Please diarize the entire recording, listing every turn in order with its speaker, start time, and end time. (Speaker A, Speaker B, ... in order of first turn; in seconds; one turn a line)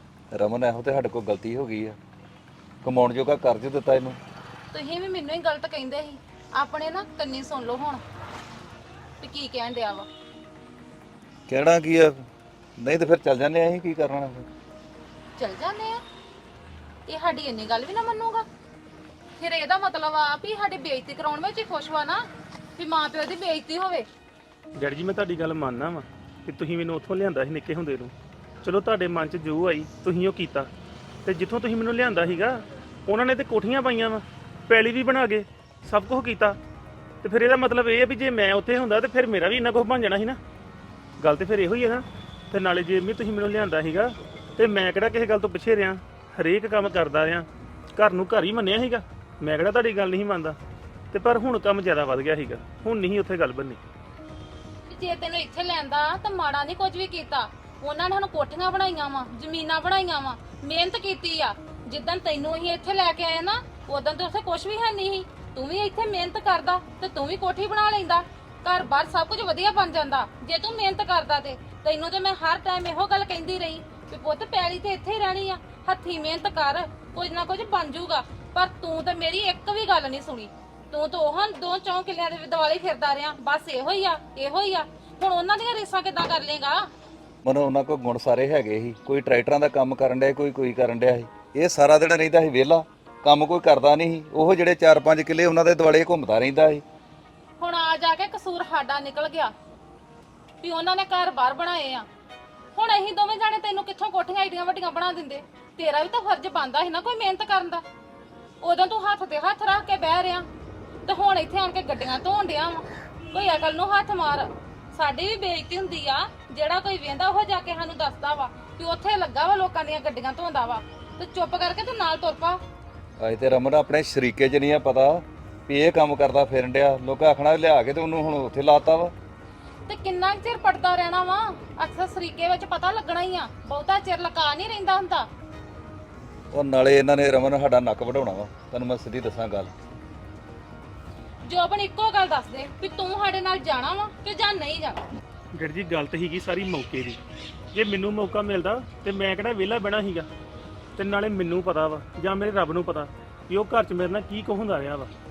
Speaker A: 0.3-2.0
Speaker A: 2.8-4.2
Speaker B: 4.7-8.0
Speaker B: 9.2-10.1
Speaker A: 11.5-12.2
Speaker A: 12.8-14.5
Speaker B: 15.4-16.0
Speaker B: 17.1-18.5
Speaker B: 19.4-22.2
Speaker B: 22.8-24.1
Speaker C: 24.8-28.1
Speaker C: 28.6-30.7
Speaker C: 31.3-36.6
Speaker C: 37.2-40.4
Speaker C: 41.2-50.6
Speaker C: 51.1-53.8
Speaker B: 54.9-86.9
Speaker A: 87.5-96.8
Speaker B: 97.6-99.5
Speaker B: 100.6-102.1
Speaker B: 102.8-107.8
Speaker B: 108.6-110.5
Speaker B: 111.1-122.6
Speaker A: 123.2-129.1
Speaker B: 129.9-135.3
Speaker A: 136.5-139.7
Speaker B: 141.4-145.0
Speaker C: 145.6-147.2
Speaker C: 147.7-150.3
Speaker C: 151.0-155.1